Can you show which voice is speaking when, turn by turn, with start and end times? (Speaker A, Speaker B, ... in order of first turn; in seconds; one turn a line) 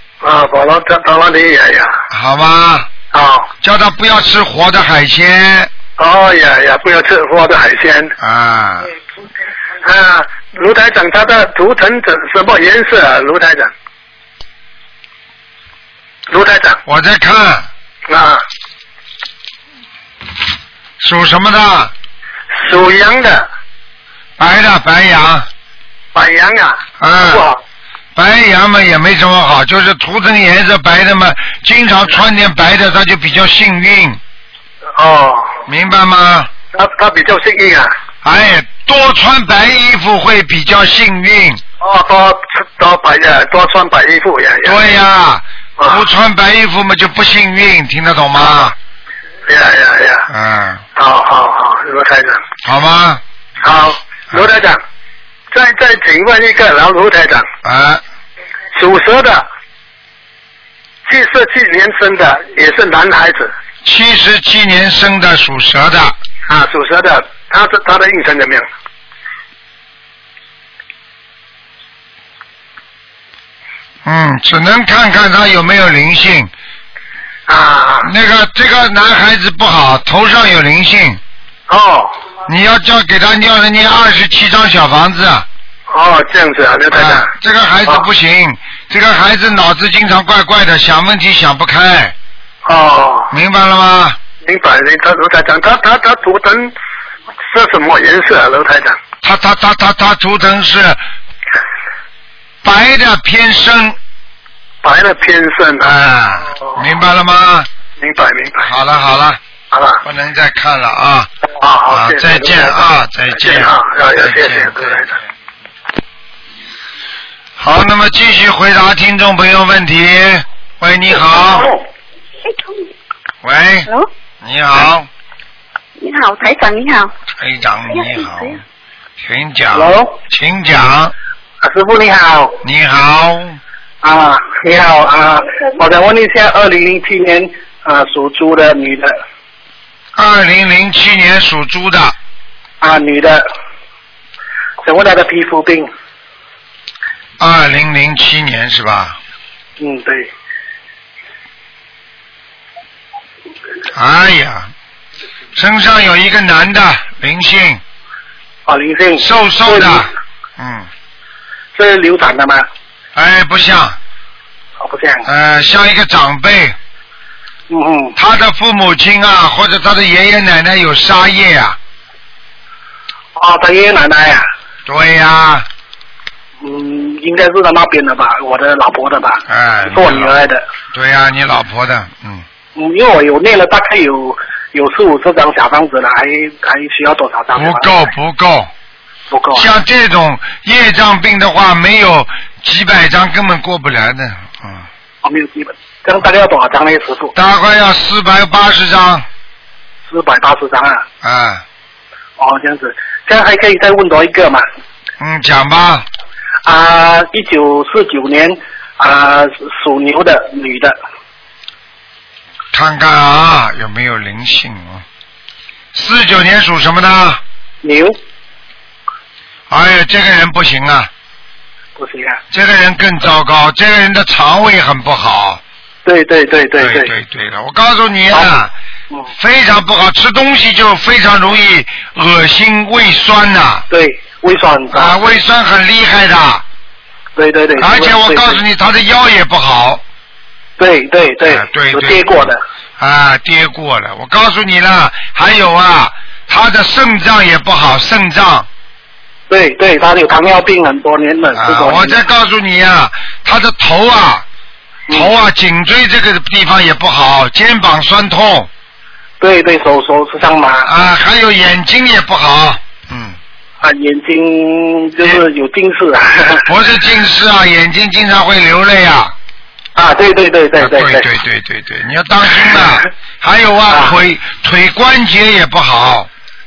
Speaker A: 0.2-2.0
Speaker B: 2.1-2.9
Speaker A: 3.1-3.5
Speaker B: 3.6-5.7
Speaker A: 6.0-8.1
Speaker B: 8.2-8.9
Speaker A: 9.8-13.7
Speaker A: 16.3-16.8
Speaker B: 16.8-17.7
Speaker A: 18.1-18.4
Speaker B: 21.0-21.9
Speaker A: 22.6-23.5
Speaker B: 24.4-25.5
Speaker A: 26.1-27.6
Speaker B: 27.0-27.5
Speaker B: 28.1-34.2
Speaker A: 35.0-35.6
Speaker B: 35.7-36.5
Speaker A: 36.7-37.9
Speaker B: 38.2-41.6
Speaker A: 41.8-44.8
Speaker B: 44.6-48.7
Speaker A: 45.8-46.0
Speaker A: 48.4-48.7
Speaker A: 49.5-50.3
Speaker B: 50.3-50.8
Speaker A: 50.9-52.4
Speaker B: 52.6-53.2
Speaker A: 53.6-54.8
Speaker A: 55.5-57.5
Speaker B: 57.6-58.0
Speaker A: 58.7-59.5
Speaker A: 61.0-63.5
Speaker B: 63.8-66.2
Speaker A: 66.5-68.7
Speaker B: 74.0-76.5
Speaker A: 77.5-78.1
Speaker B: 78.0-81.2
Speaker A: 81.7-82.2
Speaker B: 82.5-85.5
Speaker A: 85.9-87.3
Speaker B: 86.9-92.1
Speaker A: 92.6-93.3
Speaker B: 93.3-94.2
Speaker A: 94.4-96.7
Speaker A: 97.5-99.0
Speaker B: 99.2-101.0
Speaker B: 102.6-104.0
Speaker A: 104.8-105.9
Speaker B: 105.8-107.7
Speaker A: 108.0-108.7
Speaker B: 108.6-109.4
Speaker A: 109.7-110.0
Speaker B: 110.0-111.3
Speaker A: 111.6-115.1
Speaker B: 111.9-115.2
Speaker B: 117.6-121.7
Speaker B: 123.4-123.9
Speaker B: 124.4-125.1
Speaker B: 127.3-128.6
Speaker B: 129.2-131.1
Speaker C: 129.7-130.2
Speaker C: 131.6-132.6
Speaker B: 132.6-133.6
Speaker C: 134.0-139.2
Speaker B: 140.2-142.2
Speaker C: 142.8-143.4
Speaker C: 144.8-145.9
Speaker B: 147.4-149.2
Speaker C: 149.8-150.3
Speaker B: 153.9-154.7
Speaker B: 155.5-157.8
Speaker C: 158.7-160.0
Speaker B: 159.2-160.9
Speaker C: 161.7-162.7
Speaker B: 163.1-164.0
Speaker C: 164.8-165.2
Speaker B: 165.2-166.8
Speaker C: 167.7-168.1
Speaker B: 168.2-171.8
Speaker C: 173.3-174.5
Speaker B: 174.8-175.7
Speaker C: 176.6-180.6
Speaker B: 179.5-180.3
Speaker B: 180.9-182.4
Speaker C: 182.7-187.9
Speaker B: 187.5-188.7
Speaker C: 189.3-189.7
Speaker B: 189.5-194.9
Speaker C: 195.2-197.3
Speaker B: 197.3-199.2
Speaker C: 200.1-201.0
Speaker B: 201.2-201.6
Speaker C: 202.4-204.6
Speaker B: 205.2-206.1
Speaker C: 206.6-210.9
Speaker B: 212.7-215.0
Speaker B: 215.9-217.4
Speaker C: 217.8-218.2
Speaker B: 219.7-221.1
Speaker C: 221.9-222.4
Speaker B: 222.5-225.6
Speaker C: 226.0-227.1
Speaker B: 226.8-228.7
Speaker B: 229.4-233.8
Speaker C: 233.9-235.2
Speaker B: 234.9-236.6
Speaker C: 237.3-238.6
Speaker B: 237.8-240.0
Speaker C: 240.8-242.6
Speaker B: 241.5-248.7
Speaker C: 249.5-252.2
Speaker B: 251.5-254.4
Speaker B: 255.1-258.7
Speaker C: 259.4-260.9
Speaker B: 260.8-263.4
Speaker C: 263.8-266.6
Speaker B: 266.6-269.3
Speaker C: 269.9-271.2
Speaker B: 270.8-276.3
Speaker C: 272.6-272.8
Speaker C: 273.9-274.2